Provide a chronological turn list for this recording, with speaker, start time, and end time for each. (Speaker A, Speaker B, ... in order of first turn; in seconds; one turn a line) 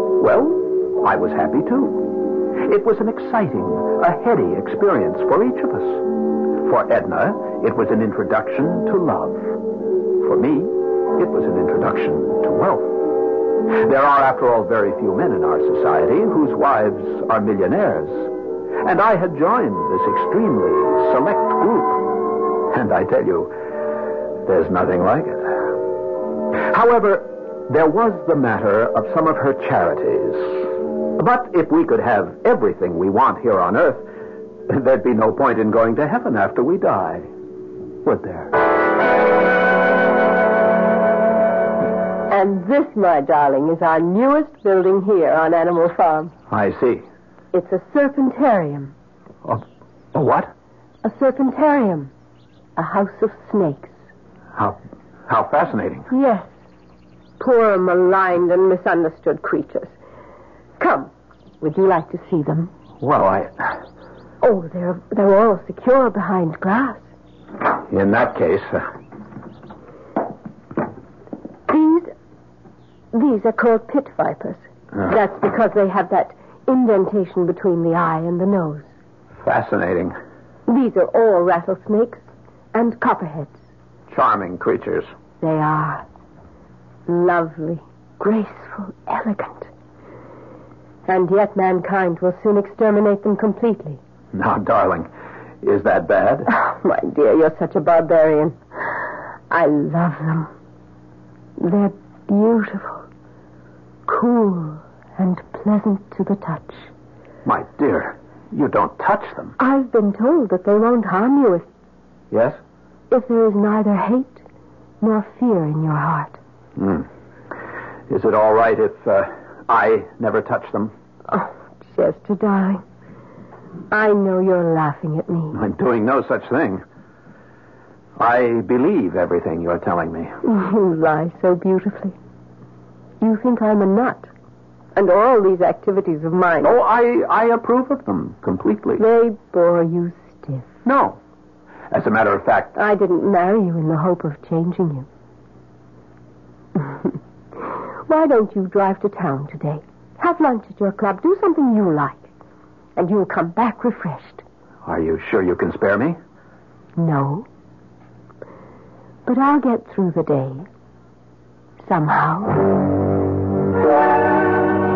Speaker A: 0.2-9.6
Speaker A: 10.2-18.3
Speaker A: 18.8-22.2
Speaker A: 22.7-23.5
Speaker A: 24.4-25.8
Speaker A: 26.5-34.0
Speaker A: 34.7-37.3
Speaker A: 38.0-38.5
Speaker B: 42.3-46.3
Speaker A: 46.5-47.0
Speaker B: 47.5-48.9
Speaker A: 50.1-50.5
Speaker B: 51.0-52.1
Speaker B: 52.8-53.9
Speaker A: 54.5-56.1
Speaker B: 56.1-56.5
Speaker B: 57.4-59.9
Speaker B: 60.8-62.7
Speaker A: 63.0-63.7
Speaker B: 64.4-67.0
Speaker A: 67.9-68.8
Speaker B: 71.7-72.1
Speaker B: 73.1-78.9
Speaker A: 79.4-80.2
Speaker B: 80.7-82.2
Speaker B: 82.7-83.5
Speaker A: 84.1-85.1
Speaker B: 85.4-86.0
Speaker B: 87.1-89.7
Speaker B: 91.1-94.0
Speaker A: 94.3-95.1
Speaker A: 95.6-96.5
Speaker B: 96.5-99.0
Speaker B: 99.5-100.5
Speaker B: 101.6-103.0
Speaker B: 104.1-106.9
Speaker A: 107.4-109.5
Speaker B: 109.6-111.7
Speaker A: 112.3-112.6
Speaker B: 113.1-114.4
Speaker B: 115.0-116.4
Speaker A: 116.8-117.1
Speaker A: 118.1-120.9
Speaker B: 121.3-122.8
Speaker B: 123.9-125.6
Speaker A: 125.5-126.8
Speaker A: 128.2-130.3
Speaker B: 130.4-132.2
Speaker B: 133.2-134.3
Speaker B: 134.9-136.8
Speaker A: 136.6-139.0
Speaker B: 139.0-140.7
Speaker A: 140.8-141.2
Speaker A: 141.9-142.8
Speaker B: 142.8-145.1
Speaker B: 148.1-152.3
Speaker B: 152.9-154.4
Speaker A: 154.8-156.2
Speaker B: 156.9-157.4
Speaker B: 159.2-160.7
Speaker B: 161.8-162.6